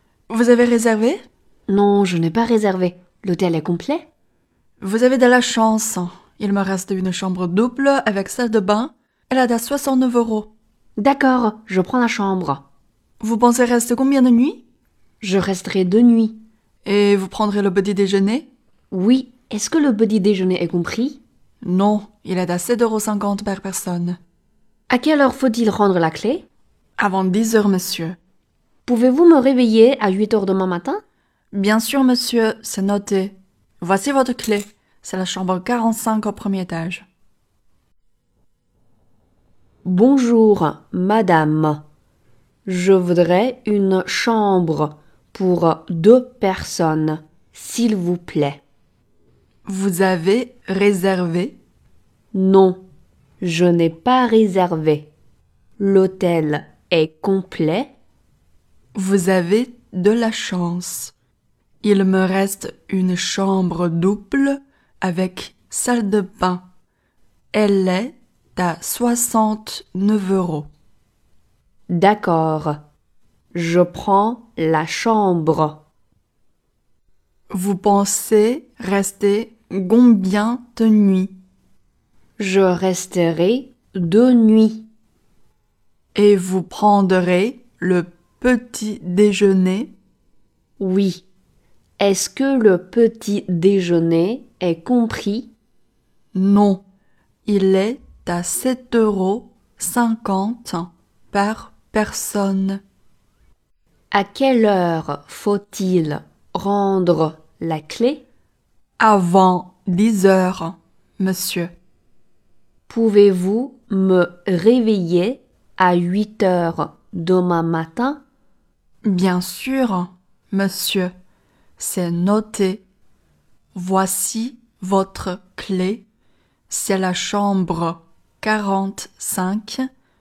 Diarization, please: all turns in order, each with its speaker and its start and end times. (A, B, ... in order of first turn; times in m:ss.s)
0:00.3-0:01.2 A
0:01.7-0:04.1 B
0:04.8-0:10.5 A
0:11.0-0:12.6 B
0:13.2-0:14.6 A
0:15.2-0:16.4 B
0:16.8-0:18.5 A
0:18.9-0:21.2 B
0:21.6-0:24.2 A
0:24.9-0:26.4 B
0:27.0-0:28.2 A
0:28.8-0:31.0 B
0:31.5-0:37.0 A
0:39.8-0:41.8 B
0:42.6-0:48.6 B
0:49.6-0:51.6 A
0:52.3-0:52.8 B
0:53.4-0:55.1 B
0:55.8-0:57.9 B
0:58.9-1:01.1 A
1:01.8-1:06.7 A
1:07.5-1:10.7 A
1:11.9-1:12.8 B
1:13.5-1:15.8 B
1:17.5-1:21.3 A
1:22.4-1:24.9 B
1:26.1-1:29.9 A
1:30.8-1:31.2 B
1:32.0-1:35.5 B
1:36.3-1:36.8 A
1:37.4-1:42.8 A
1:44.1-1:48.2 B
1:49.0-1:51.7 A
1:52.9-1:58.2 B
1:59.0-2:01.1 A
2:01.8-2:02.8 A
2:03.7-2:06.0 A
2:06.7-2:09.9 A